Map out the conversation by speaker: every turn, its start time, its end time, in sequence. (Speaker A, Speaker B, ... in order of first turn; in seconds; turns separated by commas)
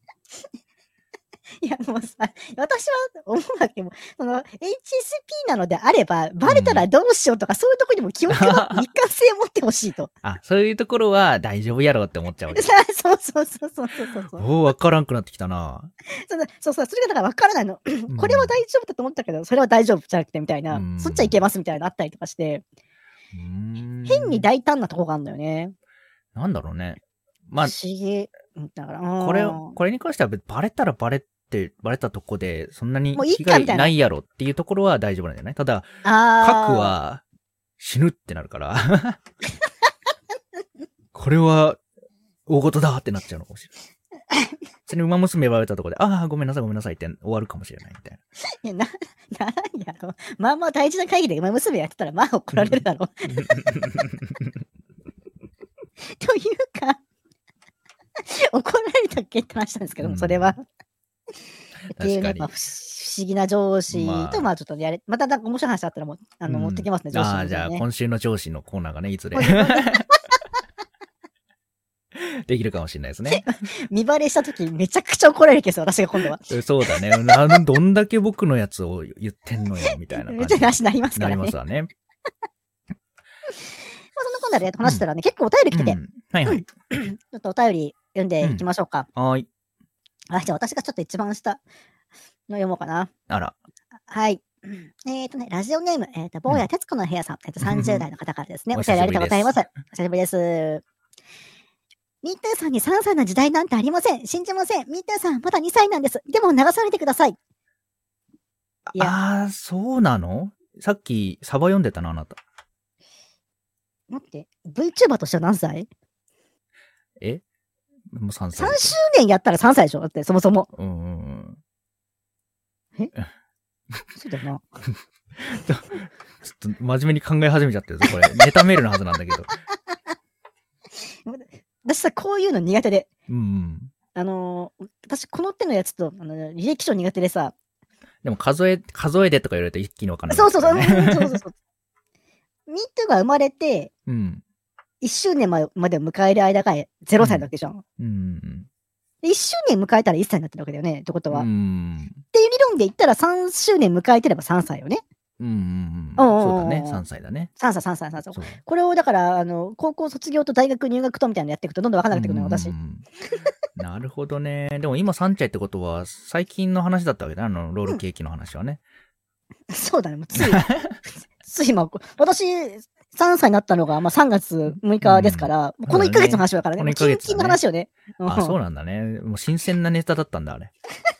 Speaker A: 1.6-10.1, Speaker B: 6.5-6.9, Speaker B: 8.3-8.9, Speaker B: 10.2-12.7, Speaker A: 12.5-14.5, Speaker B: 14.3-15.9, Speaker A: 16.1-22.6, Speaker B: 18.1-18.6, Speaker B: 20.7-21.4, Speaker B: 23.3-24.5, Speaker A: 24.1-25.7, Speaker B: 26.3-27.7, Speaker A: 27.6-29.8, Speaker B: 29.2-37.2, Speaker A: 33.1-33.9, Speaker A: 36.0-36.9, Speaker B: 37.8-39.2, Speaker B: 41.1-41.8, Speaker B: 42.5-43.7, Speaker B: 44.9-48.2, Speaker A: 48.6-53.7, Speaker B: 53.3-54.5, Speaker A: 56.1-57.0, Speaker A: 58.2-60.6, Speaker B: 60.0-60.5, Speaker A: 61.9-67.8, Speaker B: 61.9-62.5, Speaker B: 63.9-64.5, Speaker B: 66.5-70.1, Speaker A: 69.3-70.2, Speaker B: 72.1-73.5, Speaker A: 73.3-77.3, Speaker B: 76.5-81.9, Speaker A: 80.1-81.5, Speaker A: 83.5-89.1, Speaker B: 85.7-86.7, Speaker B: 89.2-89.5, Speaker A: 90.3-91.6, Speaker A: 92.5-93.1, Speaker B: 93.3-93.5, Speaker A: 94.1-100.8, Speaker B: 97.6-98.0, Speaker B: 98.7-99.6, Speaker A: 102.2-107.4, Speaker B: 108.9-112.4, Speaker A: 114.1-115.9, Speaker B: 118.1-119.0, Speaker A: 118.5-120.7, Speaker B: 120.7-121.6, Speaker A: 124.1-124.6, Speaker B: 125.3-129.5, Speaker A: 131.2-133.1, Speaker B: 133.3-133.9, Speaker A: 134.1-137.5, Speaker B: 138.2-141.4, Speaker A: 140.3-141.5, Speaker A: 142.7-143.9, Speaker B: 144.1-144.4, Speaker A: 145.0-147.8, Speaker B: 147.2-148.7, Speaker A: 149.2-151.5, Speaker B: 151.3-152.2, Speaker A: 152.3-155.0, Speaker B: 155.4-157.5, Speaker A: 156.2-157.0, Speaker A: 157.6-162.7, Speaker B: 162.1-163.1, Speaker B: 163.8-168.8, Speaker A: 169.7-170.7, Speaker B: 170.4-170.9, Speaker A: 171.4-178.6, Speaker B: 175.0-177.6, Speaker B: 178.2-180.7